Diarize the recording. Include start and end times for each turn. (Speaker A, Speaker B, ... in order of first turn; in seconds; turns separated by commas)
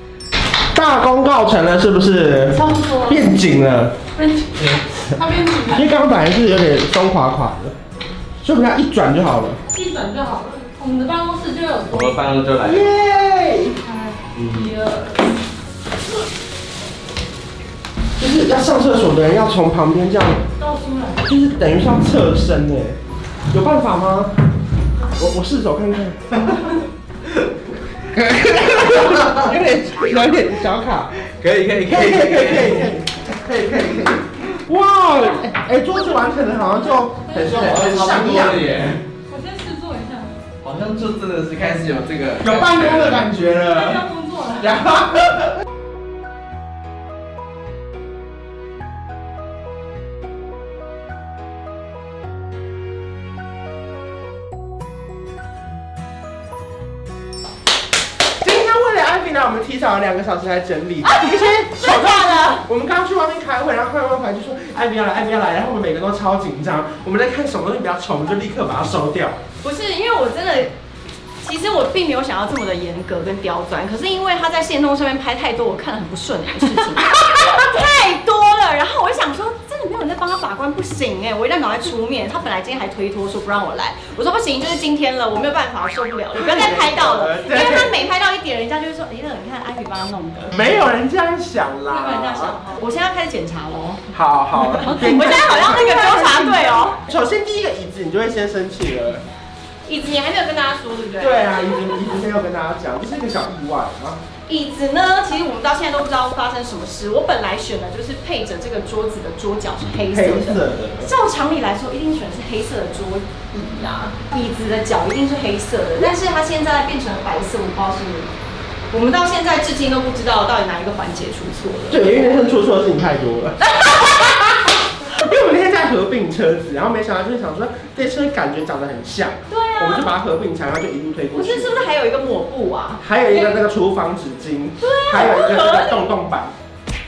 Speaker A: 0.7-3.9, Speaker B: 2.5-3.2, Speaker B: 4.2-5.8, Speaker A: 5.6-7.8, Speaker A: 8.4-9.6, Speaker B: 9.7-12.2, Speaker C: 11.9-12.9, Speaker A: 12.6-13.8, Speaker B: 13.8-15.3, Speaker C: 14.3-14.7, Speaker A: 18.2-20.4, Speaker B: 20.6-21.2, Speaker A: 21.2-23.0, Speaker A: 23.5-24.3, Speaker A: 25.1-26.7, Speaker A: 28.1-31.2, Speaker C: 31.3-32.9, Speaker A: 31.9-39.0, Speaker B: 37.0-37.6, Speaker C: 37.3-39.0, Speaker B: 39.3-40.3, Speaker C: 40.6-43.3, Speaker A: 42.4-44.1, Speaker B: 43.7-44.7, Speaker A: 44.6-45.6, Speaker A: 58.4-69.4, Speaker D: 61.0-62.6, Speaker D: 69.6-70.7, Speaker D: 71.4-90.6, Speaker A: 86.3-88.0, Speaker A: 90.5-92.6, Speaker D: 91.9-94.0, Speaker A: 94.1-99.2, Speaker D: 94.6-97.0, Speaker B: 94.9-95.3, Speaker D: 99.8-102.0, Speaker A: 101.2-104.2, Speaker D: 104.5-118.3, Speaker A: 110.1-111.1, Speaker D: 118.9-122.4, Speaker A: 121.9-124.4, Speaker D: 123.7-124.5, Speaker A: 125.0-131.9, Speaker D: 129.5-130.1, Speaker D: 131.3-133.6, Speaker A: 133.0-136.5, Speaker D: 134.8-136.0